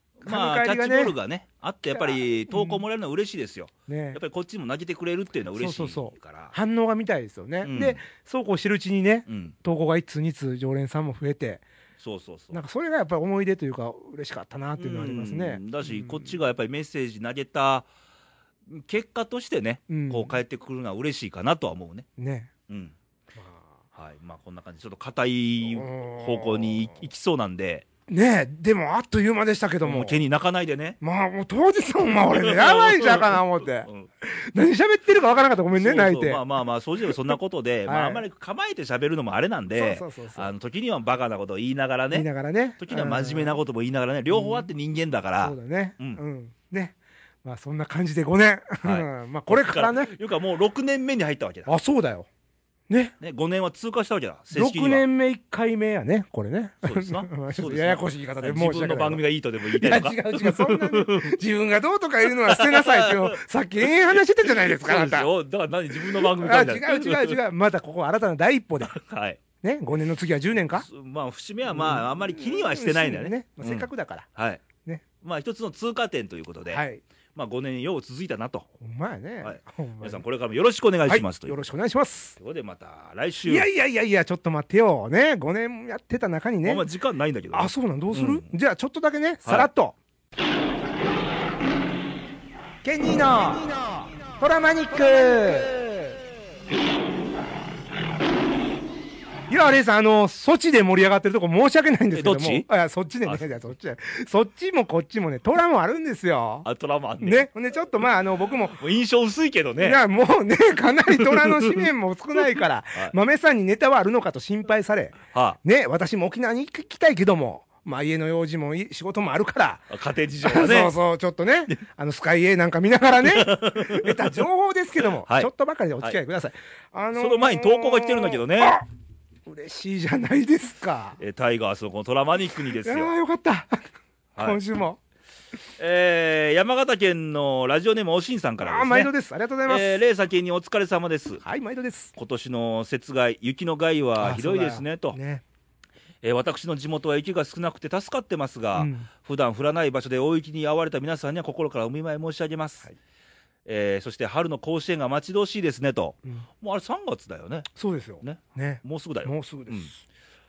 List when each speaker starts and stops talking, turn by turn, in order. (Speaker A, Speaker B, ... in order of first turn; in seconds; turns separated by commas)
Speaker A: 0.2-6.5, Speaker B: 0.2-1.1, Speaker B: 1.9-2.8, Speaker B: 3.9-4.2, Speaker B: 5.5-11.6, Speaker A: 7.6-8.0, Speaker A: 9.3-9.6, Speaker A: 12.0-12.6, Speaker B: 12.5-16.4, Speaker A: 14.8-17.9, Speaker A: 18.7-22.1, Speaker B: 19.9-20.4, Speaker B: 22.2-22.5, Speaker A: 22.7-22.9, Speaker B: 23.3-23.7, Speaker A: 23.9-27.8, Speaker B: 25.7-27.0, Speaker B: 28.1-30.2, Speaker A: 29.8-31.0, Speaker B: 31.0-36.4, Speaker A: 32.3-34.1, Speaker A: 35.7-42.3, Speaker B: 37.9-38.2, Speaker B: 39.7-40.5, Speaker B: 42.1-43.6, Speaker A: 42.8-46.2, Speaker B: 44.3-44.7, Speaker B: 45.4-50.1, Speaker A: 48.8-51.7, Speaker B: 51.6-52.3, Speaker B: 52.9-53.1, Speaker A: 53.2-55.0, Speaker B: 54.5-65.3, Speaker A: 56.8-61.4, Speaker A: 62.2-67.4, Speaker B: 66.0-68.9, Speaker A: 68.8-69.4, Speaker B: 69.6-70.9, Speaker A: 70.7-74.6, Speaker B: 71.7-74.3, Speaker A: 75.2-76.8, Speaker B: 76.7-77.0, Speaker A: 77.3-78.7, Speaker B: 78.8-80.2, Speaker A: 79.4-81.5, Speaker B: 81.1-82.4, Speaker A: 82.4-83.7, Speaker B: 83.5-86.8, Speaker A: 86.6-88.5, Speaker B: 87.5-90.0, Speaker B: 92.8-96.0, Speaker B: 99.5-106.7, Speaker A: 102.1-102.7, Speaker A: 106.6-107.5, Speaker B: 107.2-108.8, Speaker A: 108.8-110.0, Speaker B: 109.8-119.9, Speaker A: 111.2-111.9, Speaker A: 115.3-115.6, Speaker A: 119.9-120.9, Speaker B: 120.4-128.8, Speaker A: 123.2-124.4, Speaker A: 125.2-125.5, Speaker A: 127.1-128.8, Speaker B: 129.4-131.2, Speaker A: 131.2-133.1, Speaker B: 132.8-135.0, Speaker A: 135.8-139.1, Speaker B: 138.6-140.0, Speaker A: 139.7-141.4, Speaker B: 141.4-142.1, Speaker A: 142.2-145.2, Speaker B: 144.2-145.4, Speaker A: 146.2-152.9, Speaker B: 148.8-149.1, Speaker A: 153.7-157.7, Speaker B: 157.7-160.0, Speaker A: 158.2-159.9